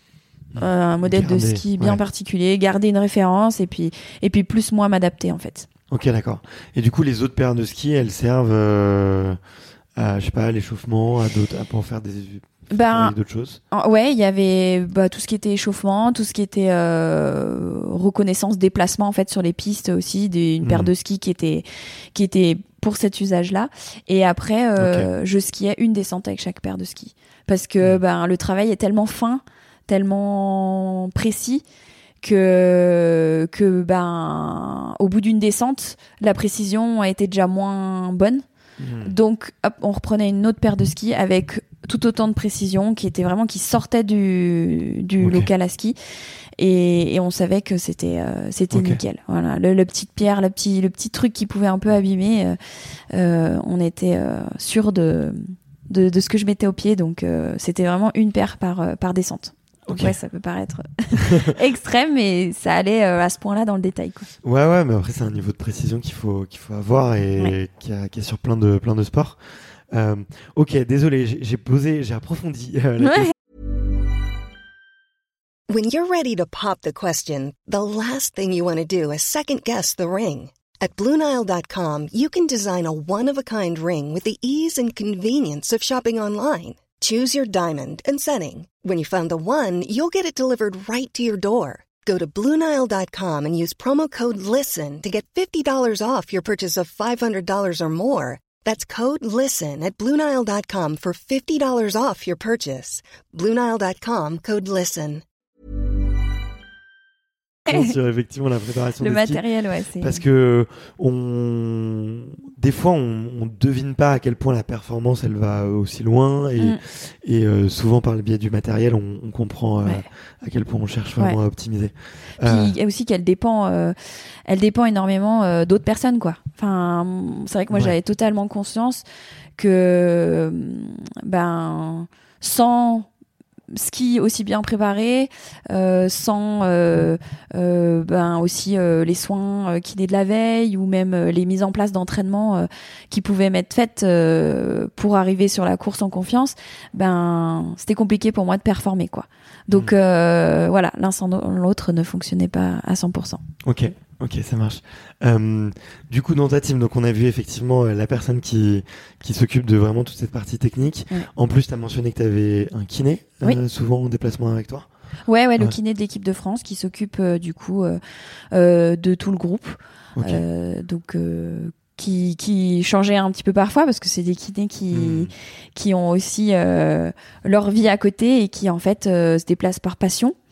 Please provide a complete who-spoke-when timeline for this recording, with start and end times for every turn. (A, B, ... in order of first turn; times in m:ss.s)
0:00.5-0:02.0 A
0:00.6-0:05.7 B
0:05.9-0:09.4 A
0:10.0-0:13.6 A
0:12.7-0:13.1 B
0:13.7-0:31.6 B
0:20.6-0:20.9 A
0:24.8-0:25.1 A
0:32.2-0:38.4 B
0:38.8-0:39.1 A
0:39.0-0:46.0 B
0:45.2-0:45.5 A
0:46.6-0:52.6 B
0:48.7-0:49.0 A
0:53.1-1:04.3 B
0:59.9-1:00.1 A
1:01.1-1:01.5 A
1:04.4-1:09.4 A
1:09.9-1:13.3 A
1:15.7-1:45.2 C
1:47.7-1:49.4 A
1:49.0-1:50.2 B
1:50.0-2:02.7 A
2:02.4-2:03.9 B
2:04.4-2:09.0 B
2:09.6-2:13.1 B
2:13.7-2:33.4 B
2:33.6-2:44.9 A
2:45.3-2:48.0 B
2:48.5-3:00.3 B
2:50.2-2:50.4 A
2:54.9-2:55.3 A